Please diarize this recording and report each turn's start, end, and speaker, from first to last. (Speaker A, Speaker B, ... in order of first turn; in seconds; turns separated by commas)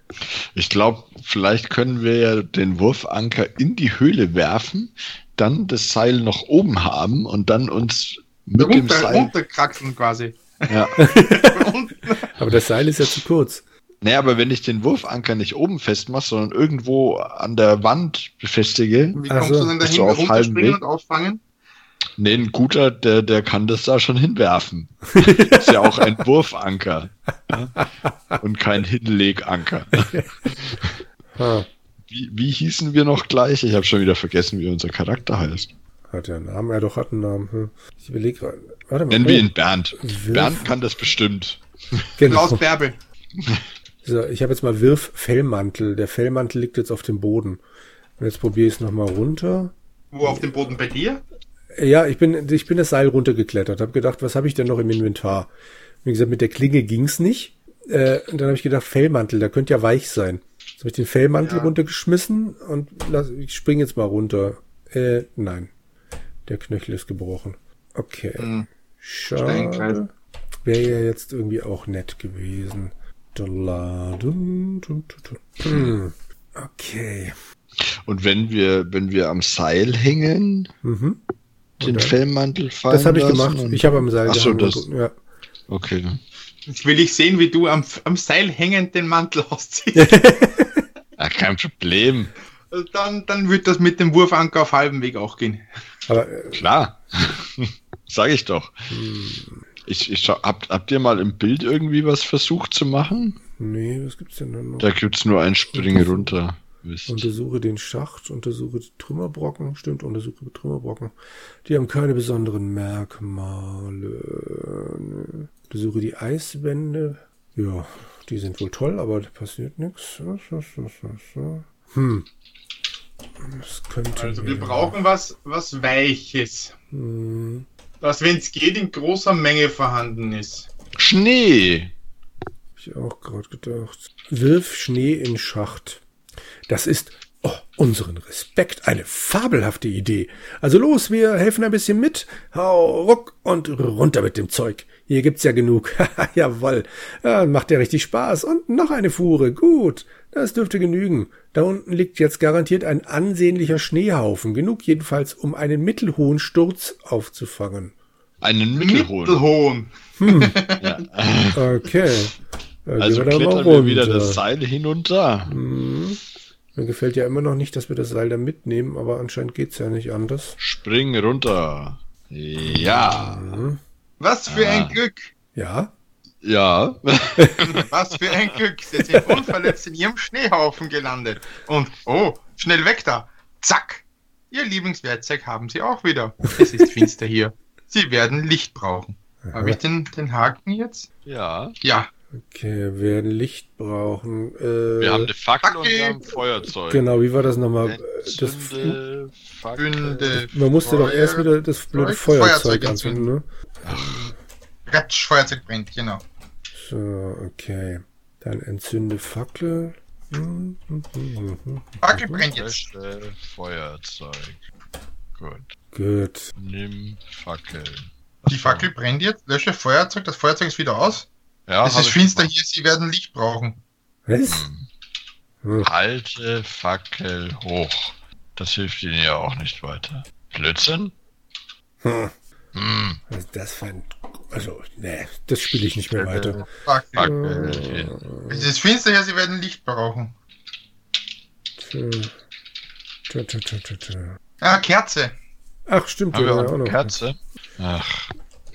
Speaker A: 0.5-9.3, Speaker B: 8.6-12.3, Speaker A: 10.7-11.0, Speaker C: 11.0-11.7, Speaker C: 12.3-13.6, Speaker A: 14.0-20.8, Speaker B: 19.1-21.4, Speaker C: 19.3-19.8, Speaker A: 22.2-27.7, Speaker C: 25.1-26.1, Speaker C: 27.8-28.4, Speaker A: 28.4-30.1, Speaker C: 29.9-30.5, Speaker A: 30.6-30.9, Speaker C: 31.4-31.7, Speaker A: 32.1-35.7, Speaker C: 36.1-40.7, Speaker A: 39.1-42.1, Speaker C: 42.2-42.6, Speaker B: 42.2-43.0, Speaker C: 44.0-47.6, Speaker C: 48.2-50.7, Speaker B: 50.1-51.2, Speaker C: 51.8-55.5, Speaker C: 56.0-65.7, Speaker B: 61.4-61.7, Speaker C: 66.5-70.1, Speaker B: 68.4-68.7, Speaker B: 69.3-70.0, Speaker C: 70.6-77.3, Speaker A: 78.0-80.7, Speaker C: 80.8-81.2, Speaker C: 81.8-82.2, Speaker A: 81.8-84.8, Speaker C: 82.9-85.2, Speaker A: 85.7-86.2, Speaker B: 86.7-90.5, Speaker C: 90.0-90.8, Speaker A: 91.2-92.3, Speaker B: 92.7-95.6, Speaker C: 96.1-96.6, Speaker A: 96.5-98.8, Speaker C: 98.9-99.7, Speaker A: 99.9-103.4, Speaker C: 103.6-104.9, Speaker A: 104.8-107.3, Speaker C: 105.7-106.3, Speaker C: 107.1-122.2, Speaker C: 123.4-125.0, Speaker B: 124.1-126.7, Speaker C: 126.9-127.7, Speaker B: 128.0-130.7, Speaker A: 131.0-131.9, Speaker C: 132.8-136.0, Speaker C: 136.7-157.9, Speaker A: 158.4-159.4, Speaker B: 158.8-161.0, Speaker C: 160.2-160.6, Speaker A: 160.8-161.6, Speaker C: 161.5-164.4, Speaker A: 163.0-165.6, Speaker C: 165.4-166.2, Speaker C: 166.7-170.6, Speaker A: 170.6-173.7, Speaker C: 172.6-173.8, Speaker B: 174.2-175.3, Speaker A: 174.5-175.0, Speaker C: 175.5-175.9, Speaker A: 176.4-178.6, Speaker B: 177.7-191.1, Speaker C: 189.4-189.8, Speaker A: 191.2-191.8, Speaker B: 191.8-192.1, Speaker C: 192.3-195.3, Speaker A: 195.0-197.1, Speaker B: 195.6-196.3, Speaker C: 196.8-199.0, Speaker A: 197.8-200.3, Speaker B: 199.8-203.3, Speaker C: 200.3-204.3, Speaker A: 203.8-204.3, Speaker B: 204.9-206.2, Speaker C: 206.7-212.5, Speaker B: 212.0-212.9, Speaker A: 212.5-214.6, Speaker A: 215.4-215.7, Speaker C: 215.9-216.5, Speaker A: 216.6-218.9, Speaker B: 218.5-221.3, Speaker A: 221.7-222.5, Speaker B: 221.8-223.8, Speaker C: 224.3-224.7, Speaker A: 224.5-224.9, Speaker C: 225.6-225.9, Speaker A: 225.8-231.1, Speaker C: 232.0-232.3, Speaker A: 232.7-233.2, Speaker C: 233.3-236.7, Speaker A: 236.1-238.2, Speaker B: 236.7-237.3, Speaker C: 237.2-238.7, Speaker B: 238.5-240.3, Speaker C: 241.8-242.3, Speaker C: 243.3-244.4, Speaker B: 244.6-245.3, Speaker C: 245.9-247.1, Speaker A: 246.3-248.3